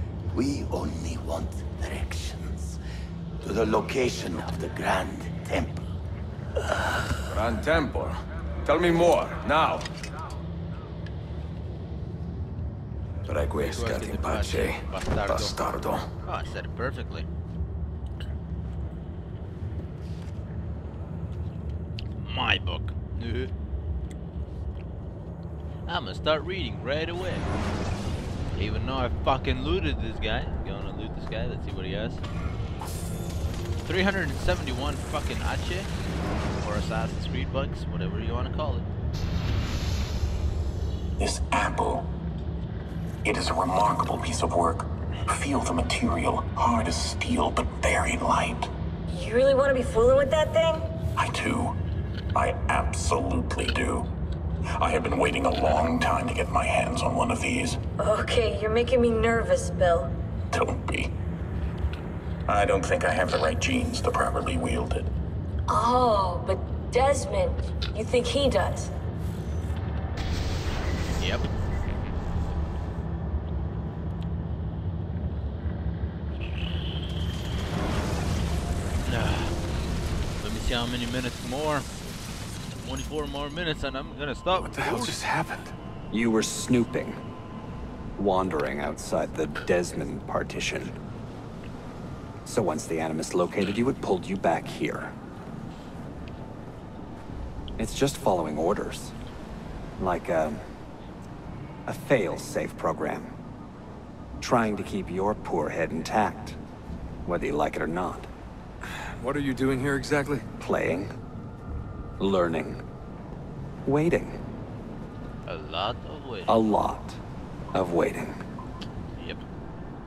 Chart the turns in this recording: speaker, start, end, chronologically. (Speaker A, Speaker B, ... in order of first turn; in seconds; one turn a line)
Speaker A: 0.3-2.8
Speaker A: 3.4-5.8
Speaker B: 7.3-8.1
Speaker B: 8.6-9.8
Speaker B: 13.2-16.1
Speaker C: 13.6-15.6
Speaker C: 16.2-17.3
Speaker C: 22.1-23.5
Speaker C: 25.9-27.5
Speaker C: 28.5-32.2
Speaker C: 33.8-35.9
Speaker C: 36.6-38.9
Speaker D: 41.2-42.0
Speaker D: 43.3-44.8
Speaker D: 45.4-48.6
Speaker E: 49.1-50.9
Speaker D: 51.2-51.7
Speaker D: 52.4-54.1
Speaker D: 54.8-57.8
Speaker E: 58.0-60.1
Speaker D: 60.5-61.1
Speaker D: 62.5-65.1
Speaker E: 65.7-68.9
Speaker C: 71.2-71.5
Speaker C: 79.0-79.6
Speaker C: 80.4-81.9
Speaker C: 82.8-85.2
Speaker F: 86.1-87.2
Speaker F: 88.2-91.0
Speaker F: 92.5-95.1
Speaker F: 97.8-99.1
Speaker F: 100.0-100.6
Speaker F: 101.9-103.3
Speaker F: 104.4-106.6
Speaker F: 107.2-108.3
Speaker F: 110.6-111.1
Speaker F: 112.2-112.8
Speaker F: 113.9-114.4
Speaker C: 115.5-116.6
Speaker F: 116.5-117.2
Speaker F: 117.7-118.4
Speaker C: 119.2-119.4